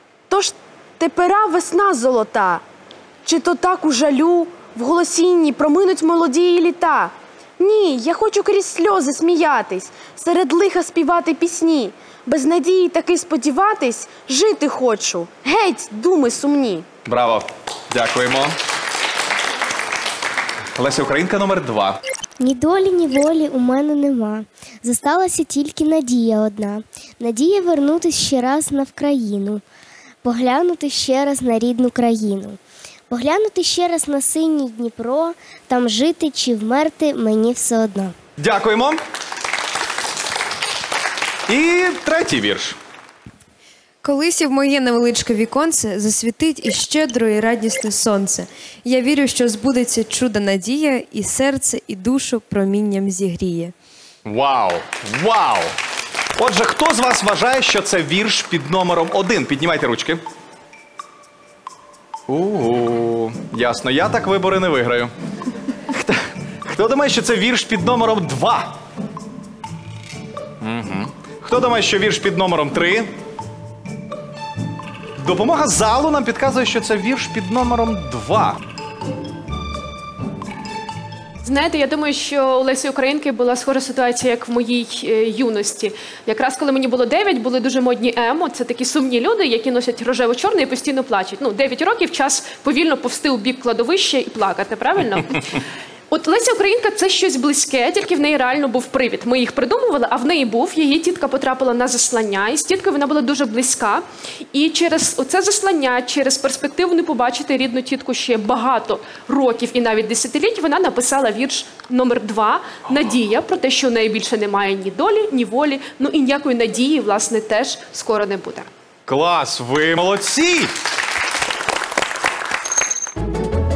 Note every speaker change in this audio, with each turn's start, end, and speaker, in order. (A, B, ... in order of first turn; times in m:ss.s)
0:00.3-0:02.6 A
0:03.2-0:16.9 A
0:17.0-0:18.5 B
0:20.8-0:22.0 B
0:22.4-0:29.6 C
0:30.2-0:32.6 C
0:33.1-0:38.1 C
0:38.4-0:39.0 B
0:41.5-0:42.8 B
0:44.0-0:53.7 D
0:54.2-0:55.7 B
0:56.4-1:00.2 B
1:02.3-1:05.1 B
1:05.9-1:08.8 B
1:10.6-1:13.1 B
1:15.2-1:18.6 B
1:21.4-1:35.5 E
1:36.1-1:58.7 E
1:59.1-2:00.7 B